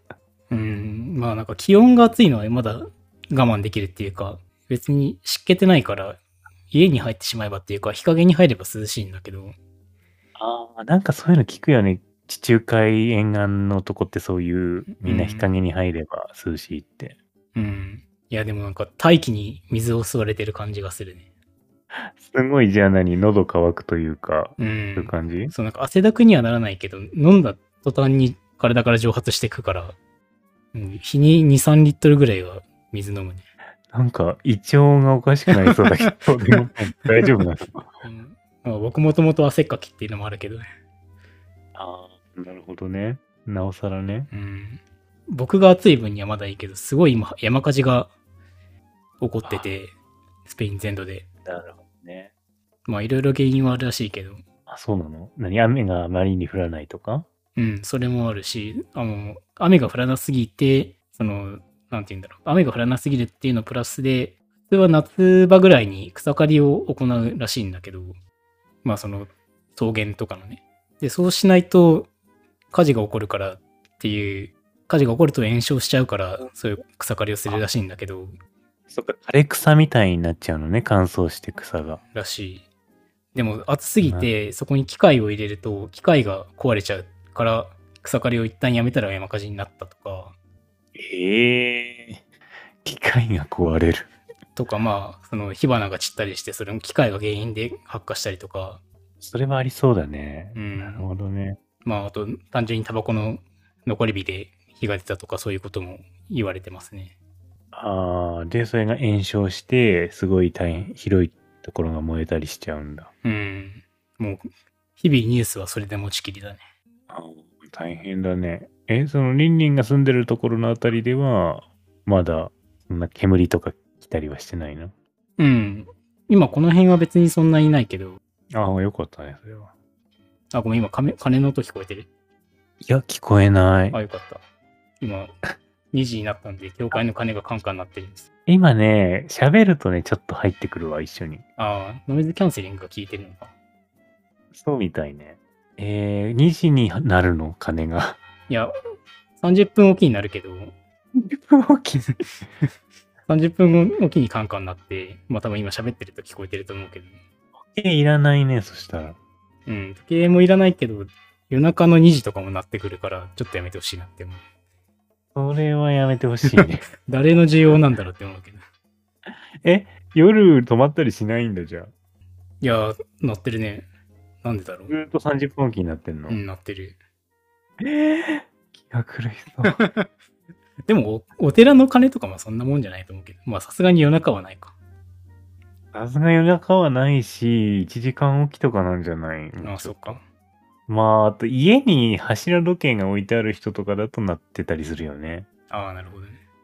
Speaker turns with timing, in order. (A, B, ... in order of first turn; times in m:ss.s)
0:00.5-0:06.2 A
0:06.7-0:09.6 A
0:10.4-0:17.2 B
0:14.9-0:15.5 A
0:17.6-0:21.3 A
0:21.9-0:25.5 B
0:24.6-0:30.0 A
0:30.7-0:33.5 A
0:33.9-0:37.9 B
0:35.6-0:36.6 A
0:38.0-0:40.6 A
0:41.8-0:44.3 B
0:44.3-0:48.1 A
0:49.2-0:49.9 A
0:49.4-0:49.7 B
0:50.4-0:51.3 A
0:51.4-0:52.3 B
0:52.9-0:54.4 A
0:54.7-0:57.3 B
0:57.6-1:08.2 A
1:08.8-1:12.1 A
1:12.7-1:18.4 A
1:18.9-1:22.0 B
1:22.1-1:22.7 A
1:23.3-1:30.4 A
1:24.0-1:24.3 B
1:31.0-1:32.2 B
1:32.8-1:34.1 B
1:34.6-1:38.8 A
1:39.2-1:41.6 B
1:40.6-1:41.1 A
1:41.8-1:47.2 A
1:47.7-1:53.1 B
1:53.2-1:56.7 A
1:57.1-2:04.9 B
2:05.4-2:08.2 A
2:08.5-2:09.7 B
2:10.5-2:12.1 A
2:12.8-2:14.0 B
2:13.9-2:14.4 A
2:15.0-2:15.3 A
2:15.9-2:18.3 A
2:18.5-2:21.4 B
2:21.6-2:23.5 A
2:24.5-2:28.2 B
2:29.4-2:30.8 A
2:31.2-2:32.2 B
2:33.3-2:37.2 A
2:37.6-2:39.2 B
2:39.7-2:44.4 A
2:45.3-2:46.9 B
2:46.4-2:48.6 A
2:49.3-2:51.9 B
2:52.6-2:53.9 A
2:54.4-2:54.9 A
2:54.9-2:56.4 B
2:56.3-2:57.0 A
2:57.8-2:59.8 B
2:59.6-3:00.1 A
3:00.9-3:04.7 A
3:05.9-3:10.2 B
3:09.6-3:10.2 A
3:10.9-3:15.5 B
3:15.7-3:16.4 A